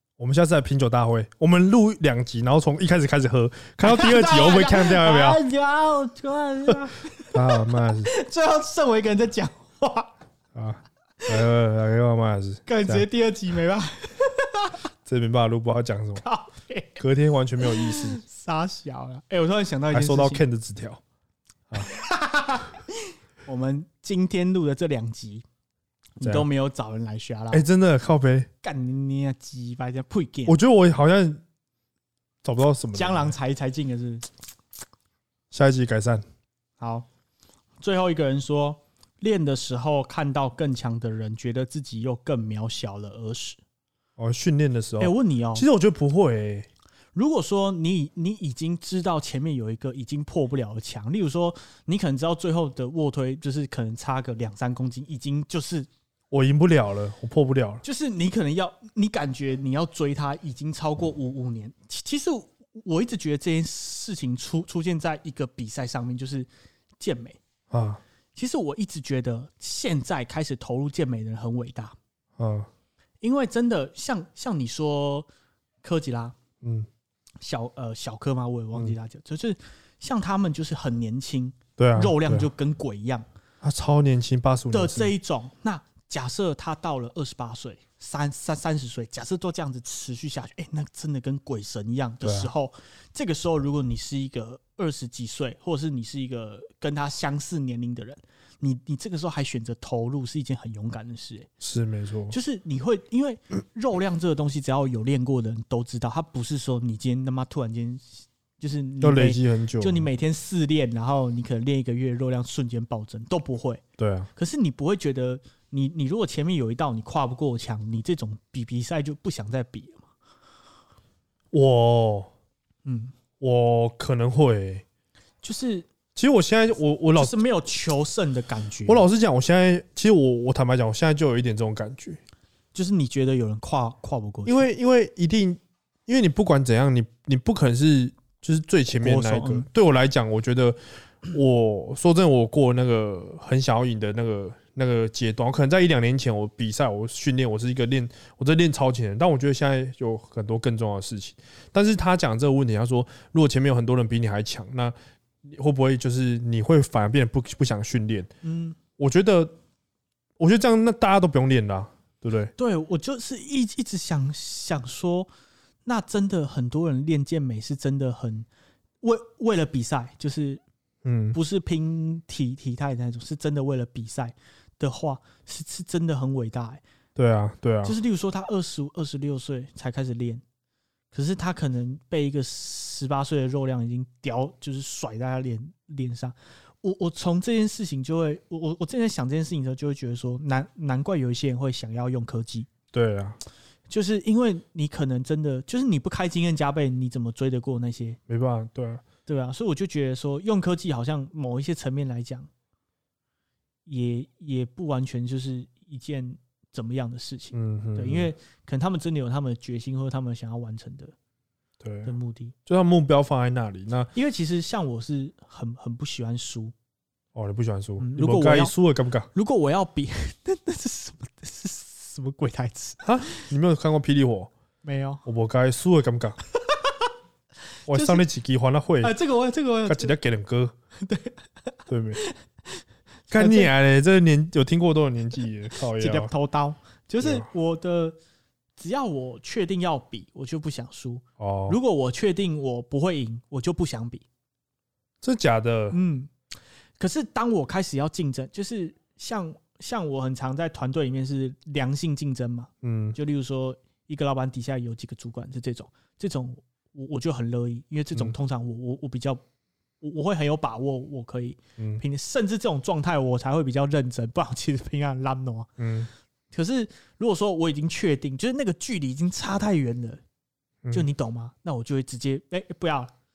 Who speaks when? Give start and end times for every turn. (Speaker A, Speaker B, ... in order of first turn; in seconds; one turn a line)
Speaker A: 0.2-5.4
Speaker B: 3.8-10.1
Speaker A: 7.3-8.1
Speaker A: 10.5-13.1
Speaker B: 12.7-14.8
Speaker A: 15.0-16.2
Speaker B: 16.2-17.0
Speaker A: 17.0-18.2
Speaker B: 17.6-20.4
Speaker A: 19.9-21.0
Speaker B: 21.8-25.4
Speaker B: 26.2-27.6
Speaker A: 27.5-28.5
Speaker B: 28.6-30.6
Speaker A: 30.4-31.4
Speaker A: 32.4-33.3
Speaker B: 32.9-34.3
Speaker A: 35.5-36.2
Speaker B: 36.8-37.1
Speaker B: 37.8-43.6
Speaker A: 44.2-46.7
Speaker B: 45.0-45.6
Speaker B: 47.1-55.9
Speaker A: 56.3-57.8
Speaker B: 57.8-66.5
Speaker B: 67.0-67.4
Speaker A: 67.7-68.0
Speaker B: 68.3-72.0
Speaker A: 72.4-72.7
Speaker B: 73.2-75.3
Speaker B: 75.8-76.4
Speaker A: 76.6-76.9
Speaker B: 77.4-83.2
Speaker A: 81.8-82.5
Speaker A: 83.6-85.1
Speaker B: 84.7-101.5
Speaker A: 92.2-92.5
Speaker A: 101.6-102.3
Speaker B: 102.3-113.8
Speaker A: 109.0-110.1
Speaker A: 114.0-114.3
Speaker B: 114.3-120.0
Speaker A: 121.5-122.3
Speaker B: 122.8-123.1
Speaker A: 123.4-124.8
Speaker B: 125.4-125.9
Speaker A: 126.1-127.4
Speaker B: 127.2-129.0
Speaker A: 128.8-132.2
Speaker B: 132.7-134.6
Speaker A: 134.4-158.3
Speaker B: 138.9-139.7
Speaker B: 158.4-158.8
Speaker A: 159.0-159.5
Speaker A: 160.4-162.5
Speaker B: 162.6-165.3
Speaker B: 165.8-168.5
Speaker B: 169.0-170.6
Speaker A: 171.0-171.4
Speaker B: 171.3-176.8
Speaker A: 177.2-177.9
Speaker B: 177.8-180.4
Speaker B: 181.1-192.7
Speaker A: 192.9-193.4
Speaker B: 193.9-198.2
Speaker A: 198.3-199.0
Speaker B: 199.3-202.5
Speaker B: 203.8-211.1
Speaker A: 207.5-208.3
Speaker A: 211.8-212.1
Speaker B: 212.1-212.5
Speaker A: 212.7-214.1
Speaker B: 214.1-216.7
Speaker A: 217.3-219.3
Speaker B: 218.0-218.7
Speaker B: 219.3-223.5
Speaker A: 223.0-224.5
Speaker B: 224.8-225.2
Speaker A: 225.2-226.4
Speaker B: 226.6-227.1
Speaker A: 227.9-229.1
Speaker B: 227.9-228.2
Speaker B: 229.0-230.1
Speaker A: 229.8-230.7
Speaker B: 231.0-231.4
Speaker A: 231.9-232.2
Speaker A: 233.3-236.3
Speaker B: 233.3-233.7
Speaker B: 236.0-238.2
Speaker A: 237.2-237.5
Speaker B: 238.8-244.2
Speaker A: 241.4-241.8
Speaker A: 245.2-246.0
Speaker B: 245.9-246.3
Speaker B: 247.0-259.4
Speaker A: 252.8-253.2
Speaker B: 260.0-265.7
Speaker A: 261.8-262.0
Speaker A: 265.8-266.1
Speaker B: 266.5-270.2
Speaker B: 270.9-273.1